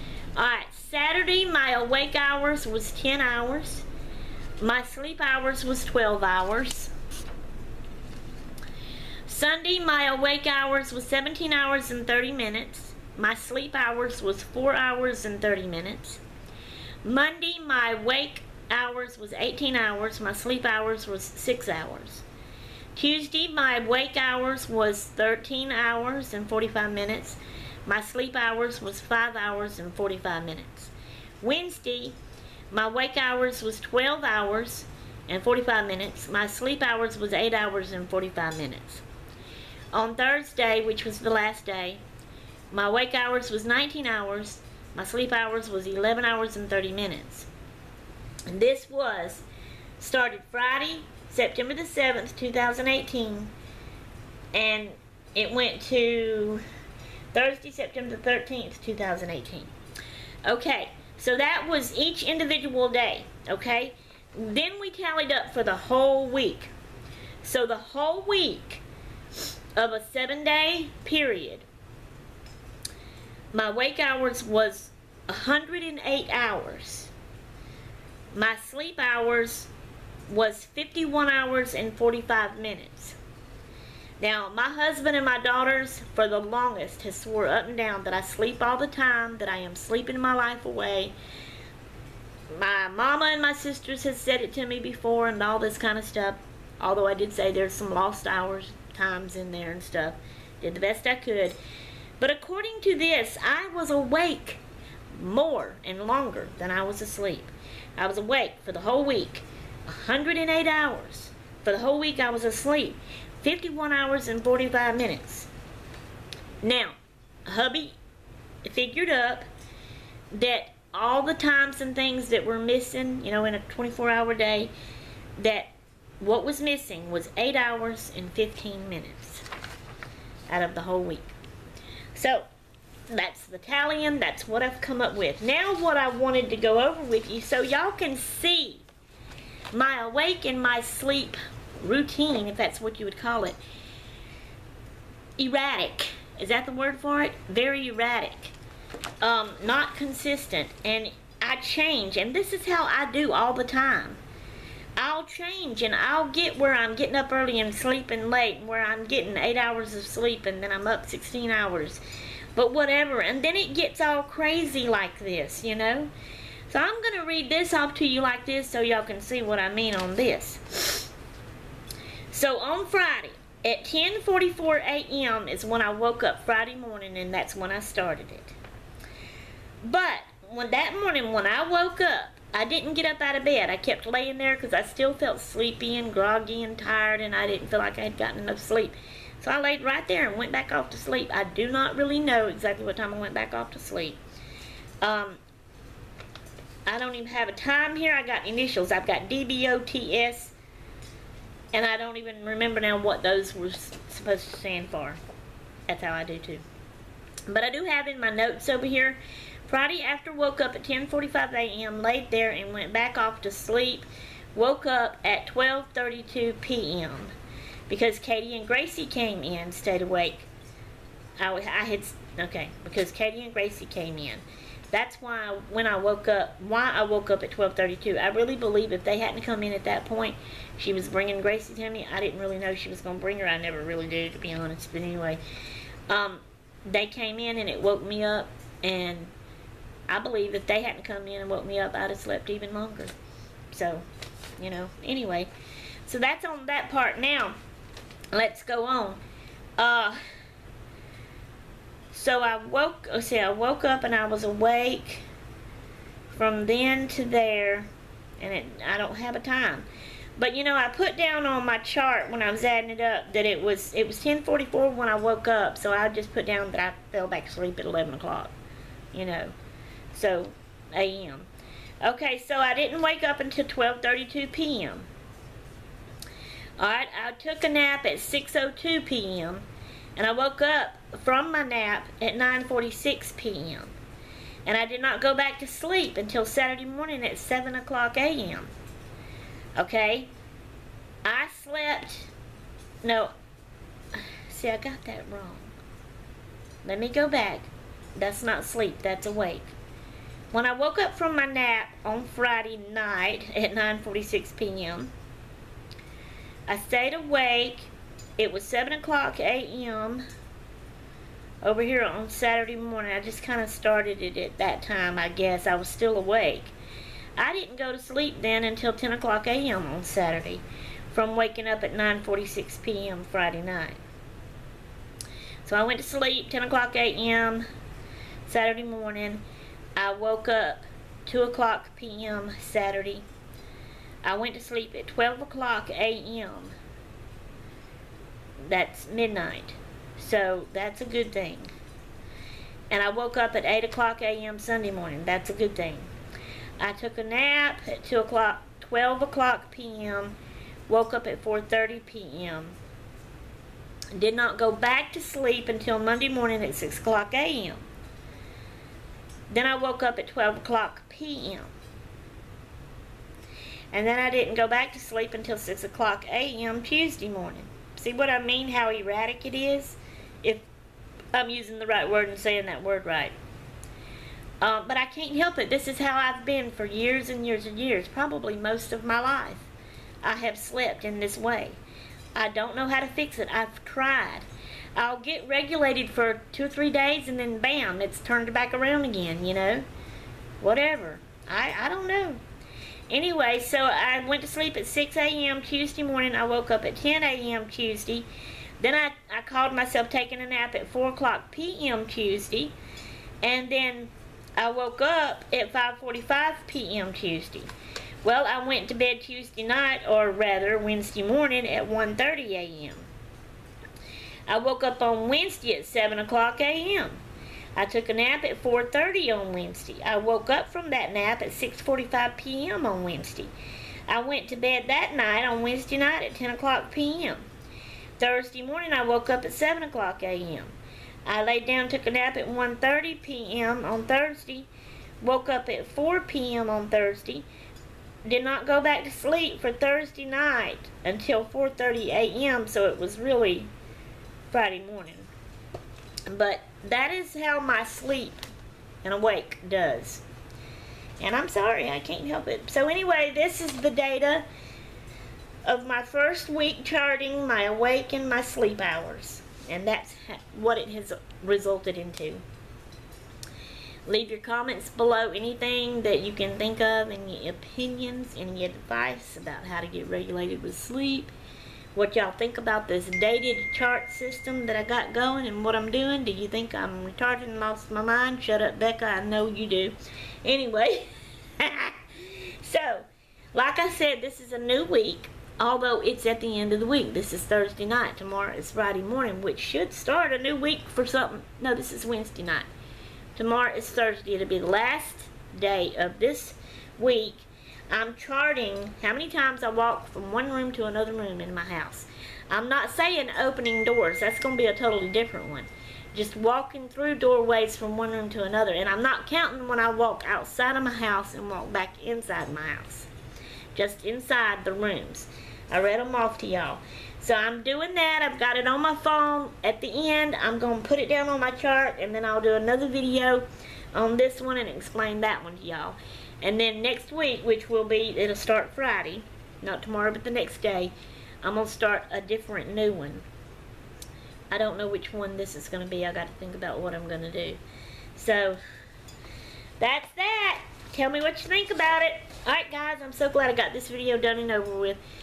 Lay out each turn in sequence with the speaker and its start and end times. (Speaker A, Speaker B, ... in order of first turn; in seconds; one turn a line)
Speaker A: 0.3-3.9
Speaker A: 4.6-6.9
Speaker A: 9.3-16.2
Speaker A: 17.0-22.2
Speaker A: 22.9-32.2
Speaker A: 32.7-39.0
Speaker A: 39.9-42.0
Speaker A: 42.7-47.5
Speaker A: 48.5-49.5
Speaker A: 50.0-53.5
Speaker A: 54.5-56.6
Speaker A: 57.3-59.7
Speaker A: 60.5-66.7
Speaker A: 67.4-68.8
Speaker A: 69.8-71.7
Speaker A: 73.5-77.1
Speaker A: 78.3-79.7
Speaker A: 80.3-83.2
Speaker A: 84.2-91.1
Speaker A: 92.5-101.6
Speaker A: 102.2-104.6
Speaker A: 105.1-115.5
Speaker A: 116.6-118.0
Speaker A: 118.6-119.5
Speaker A: 120.3-124.7
Speaker A: 125.4-129.4
Speaker A: 130.5-131.3
Speaker A: 132.2-132.5
Speaker A: 133.1-138.8
Speaker A: 139.7-143.6
Speaker A: 145.4-148.5
Speaker A: 149.2-154.2
Speaker A: 155.0-162.0
Speaker A: 162.6-166.1
Speaker A: 166.7-171.1
Speaker A: 172.3-178.6
Speaker A: 179.8-194.2
Speaker A: 195.0-195.4
Speaker A: 196.9-200.5
Speaker A: 201.7-205.2
Speaker A: 205.9-206.6
Speaker A: 207.5-217.3
Speaker A: 217.9-220.5
Speaker A: 221.4-235.4
Speaker A: 236.1-239.3
Speaker A: 240.1-243.1
Speaker A: 243.7-244.1
Speaker A: 244.6-245.5
Speaker A: 246.1-247.6
Speaker A: 248.3-249.2
Speaker A: 249.8-250.2
Speaker A: 252.1-255.2
Speaker A: 256.3-257.9
Speaker A: 258.4-259.9
Speaker A: 260.4-268.5
Speaker A: 269.1-269.5
Speaker A: 270.1-271.5
Speaker A: 272.0-275.1
Speaker A: 276.8-279.6
Speaker A: 280.2-283.9
Speaker A: 284.7-288.7
Speaker A: 289.8-290.3
Speaker A: 291.2-292.3
Speaker A: 293.0-293.3
Speaker A: 294.1-295.7
Speaker A: 296.8-299.7
Speaker A: 300.5-305.1
Speaker A: 306.7-310.2
Speaker A: 311.6-316.7
Speaker A: 317.4-324.0
Speaker A: 325.6-327.6
Speaker A: 328.5-329.4
Speaker A: 330.0-333.2
Speaker A: 334.2-336.8
Speaker A: 338.6-341.7
Speaker A: 342.9-346.1
Speaker A: 346.8-350.4
Speaker A: 350.9-352.8
Speaker A: 354.1-357.9
Speaker A: 359.5-361.7
Speaker A: 363.9-370.7
Speaker A: 371.3-373.4
Speaker A: 374.6-379.7
Speaker A: 380.2-381.8
Speaker A: 382.4-384.4
Speaker A: 385.0-389.9
Speaker A: 390.6-392.4
Speaker A: 393.1-398.3
Speaker A: 398.8-402.7
Speaker A: 403.4-407.7
Speaker A: 408.2-413.1
Speaker A: 414.5-417.2
Speaker A: 417.8-423.5
Speaker A: 424.1-427.5
Speaker A: 428.2-430.7
Speaker A: 431.3-434.7
Speaker A: 435.2-437.5
Speaker A: 438.2-443.7
Speaker A: 444.5-445.3
Speaker A: 446.3-448.4
Speaker A: 449.0-450.2
Speaker A: 451.2-454.5
Speaker A: 455.6-462.4
Speaker A: 464.1-471.3
Speaker A: 471.9-481.1
Speaker A: 481.6-492.7
Speaker A: 493.4-513.1
Speaker A: 513.8-533.2
Speaker A: 534.5-537.6
Speaker A: 538.2-538.6
Speaker A: 539.8-545.0